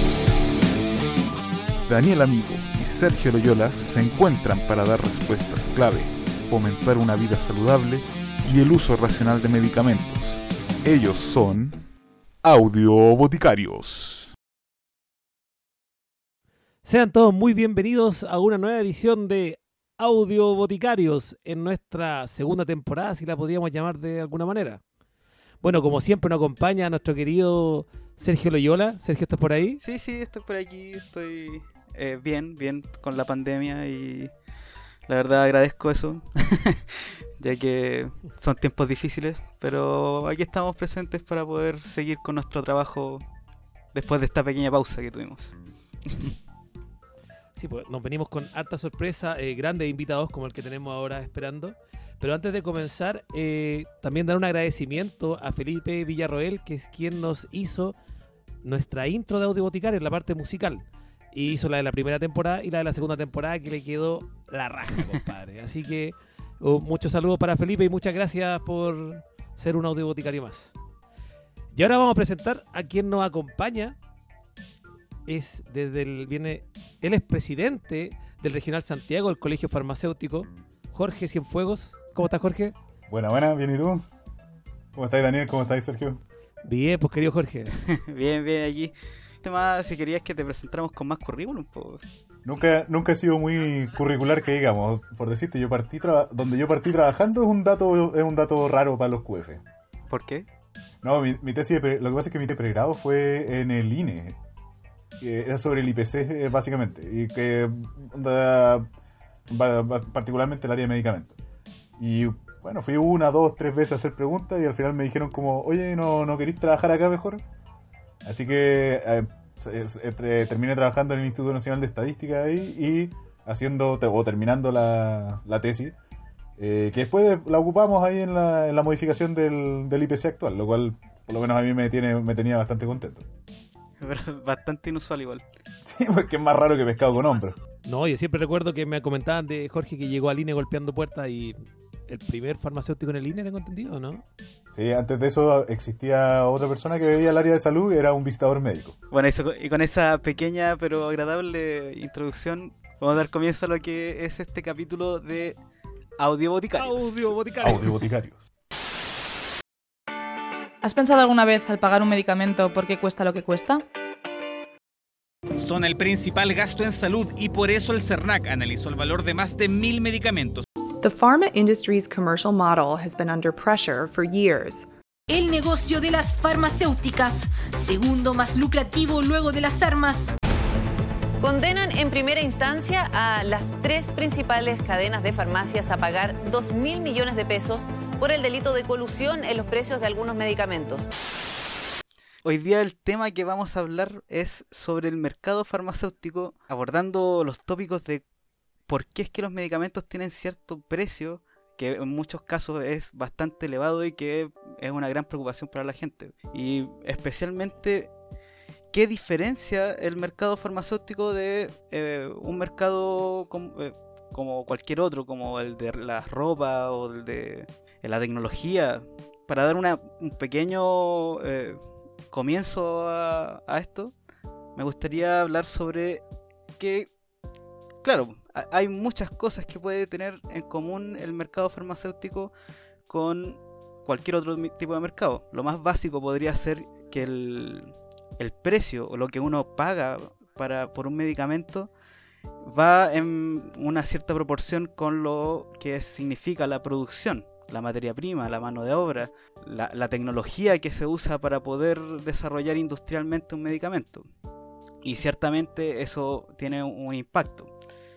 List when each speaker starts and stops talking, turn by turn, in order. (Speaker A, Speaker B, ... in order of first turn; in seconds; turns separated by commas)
Speaker A: 1.9-11.8, Speaker A: 12.4-14.3, Speaker B: 16.9-24.8, Speaker B: 25.6-29.8, Speaker C: 29.8-34.3, Speaker C: 35.1-43.2, Speaker C: 43.9-45.5, Speaker C: 46.1-46.3, Speaker B: 47.6-58.0, Speaker B: 58.6-70.7, Speaker B: 71.8-74.0, Speaker B: 75.3-82.8, Speaker D: 83.1-84.1, Speaker D: 85.0-86.2, Speaker B: 86.7-87.7, Speaker C: 87.8-92.0, Speaker D: 92.5-99.6, Speaker C: 100.1-100.5, Speaker D: 101.0-104.4, Speaker D: 105.2-108.9, Speaker D: 109.5-111.4, Speaker D: 112.0-117.4, Speaker D: 118.2-126.0, Speaker D: 126.6-133.3, Speaker C: 134.0-135.4, Speaker D: 135.8-137.6, Speaker B: 137.9-144.2, Speaker D: 144.7-149.0, Speaker C: 149.1-155.6, Speaker C: 156.2-157.3, Speaker B: 156.8-157.9, Speaker D: 157.6-158.4, Speaker E: 160.8-163.8, Speaker F: 165.6-170.7, Speaker G: 171.0-174.9, Speaker H: 175.3-180.3, Speaker I: 181.4-191.1, Speaker C: 192.4-198.2, Speaker C: 198.9-208.1, Speaker C: 208.9-221.8, Speaker C: 222.3-224.1, Speaker C: 224.8-226.2, Speaker C: 226.8-227.1, Speaker C: 228.0-232.5, Speaker C: 233.1-241.9, Speaker C: 242.6-254.3, Speaker C: 255.0-257.7